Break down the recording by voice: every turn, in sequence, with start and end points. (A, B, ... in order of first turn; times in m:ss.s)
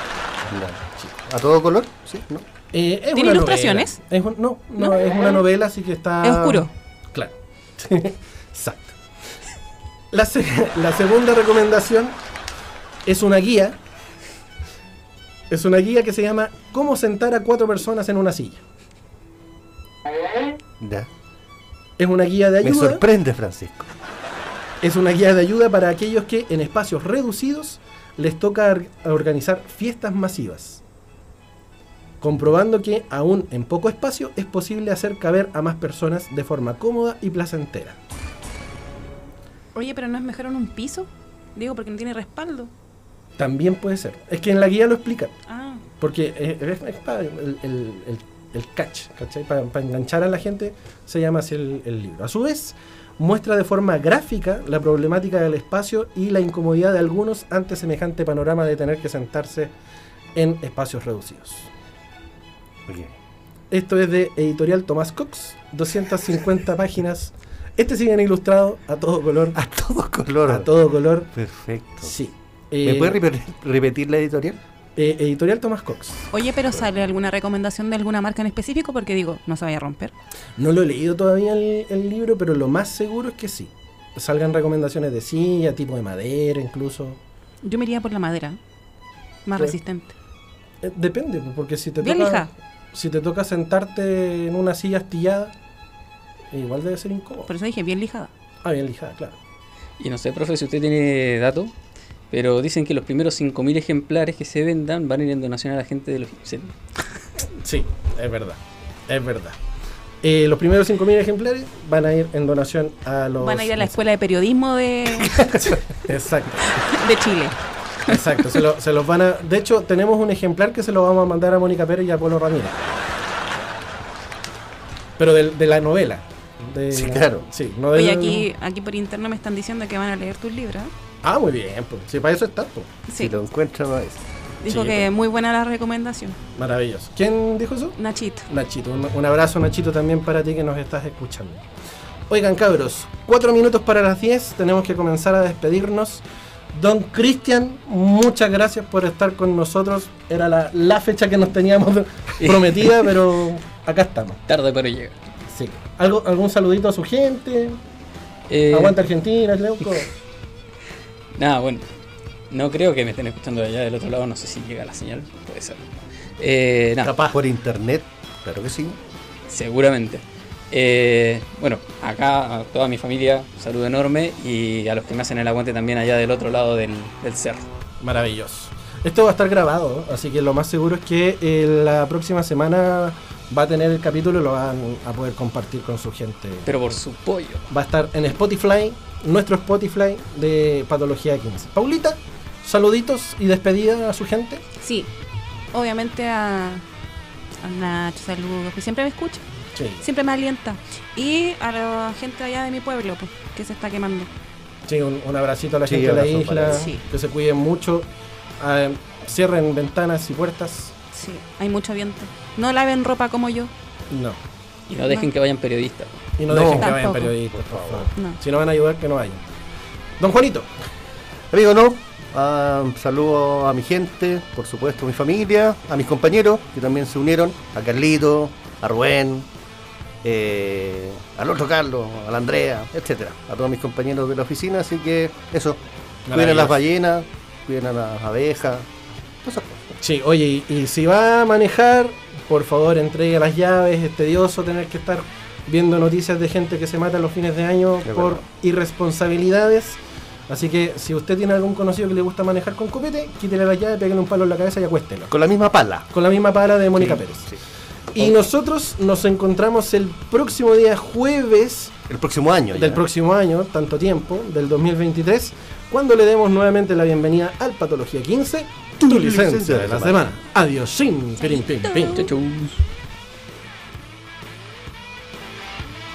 0:00.5-0:02.5 A
0:02.7-0:09.0 B
0:03.1-0:04.0 C
0:04.8-0:05.4 C
0:06.2-0:06.7 C
0:10.1-0:12.2 B
0:13.0-0:13.8 B
0:15.5-0:18.6 B
0:20.8-0:21.1 A
0:22.0-0:23.0 B
0:22.6-0:23.9 A
0:24.8-0:30.8 B
0:32.2-0:38.0 B
0:39.7-0:42.7 C
0:43.4-0:45.4 B
0:45.5-0:45.8 C
0:46.0-0:59.7 B
1:00.3-1:01.7 B
1:02.9-1:03.1 A
1:03.7-1:09.6 B
1:09.5-1:10.7 A
1:10.4-1:11.3 B
1:11.3-1:12.1 A
1:12.0-1:13.2 B
1:12.8-1:14.6 A
1:15.0-1:16.3 B
1:16.3-1:20.1 C
1:20.6-1:27.2 B
1:27.6-1:28.6 C
1:29.4-1:30.1 C
1:30.8-1:35.5 B
1:32.0-1:32.5 C
1:36.5-1:37.5 B
1:37.5-1:38.3 C
1:38.6-1:39.4 B
1:40.0-1:41.7 D
1:42.3-1:46.7 D
1:47.6-1:49.6 B
1:50.2-1:53.9 B
1:53.4-1:55.8 C
1:55.6-1:56.8 B
1:56.7-1:57.6 C
1:58.0-2:03.0 B
2:05.2-2:08.5 B
2:06.9-2:07.4 A
2:07.9-2:10.9 C
2:11.2-2:12.9 B
2:13.1-2:13.4 C
2:13.1-2:14.2 A
2:14.6-2:16.4 C
2:14.7-2:15.0 B
2:16.6-2:21.6 B
2:18.0-2:18.4 C
2:22.3-2:34.4 B
2:32.4-2:33.1 D
2:34.5-2:35.1 D
2:35.5-2:37.8 B
2:38.5-2:39.1 D
2:38.7-2:40.1 B
2:41.4-2:41.8 D
2:42.5-2:45.8 D
2:46.4-2:47.1 D
2:47.0-2:47.4 B
2:47.3-2:49.0 A
2:49.5-2:57.7 D
2:58.0-3:06.9 B
3:06.7-3:07.7 D
3:07.7-3:14.6 B
3:14.8-3:15.1 C
3:15.7-3:16.8 C
3:17.6-3:19.4 C
3:19.7-3:20.0 B
3:20.0-3:24.3 C
3:24.9-3:28.1 B
3:25.8-3:26.9 A
3:26.7-3:27.0 C
3:28.6-3:30.9 B
3:31.1-3:33.7 C
3:34.1-3:34.4 B
3:34.9-3:36.3 D
3:36.4-3:39.4 B
3:36.5-3:38.1 A
3:36.8-3:37.3 C
3:40.2-3:40.7 B
3:41.5-3:49.5 A
3:50.2-3:55.8 A
3:56.2-3:56.8 B
3:56.3-3:58.9 A
3:59.4-3:59.8 A
3:59.9-4:15.3 B
4:08.0-4:08.4 A
4:15.3-4:16.1 A
4:16.1-4:17.5 B
4:17.0-4:17.6 A
4:18.1-4:22.0 B
4:22.1-4:23.0 A
4:22.7-4:32.3 B
4:29.0-4:30.2 A
4:31.4-4:32.3 C
4:32.1-4:32.8 D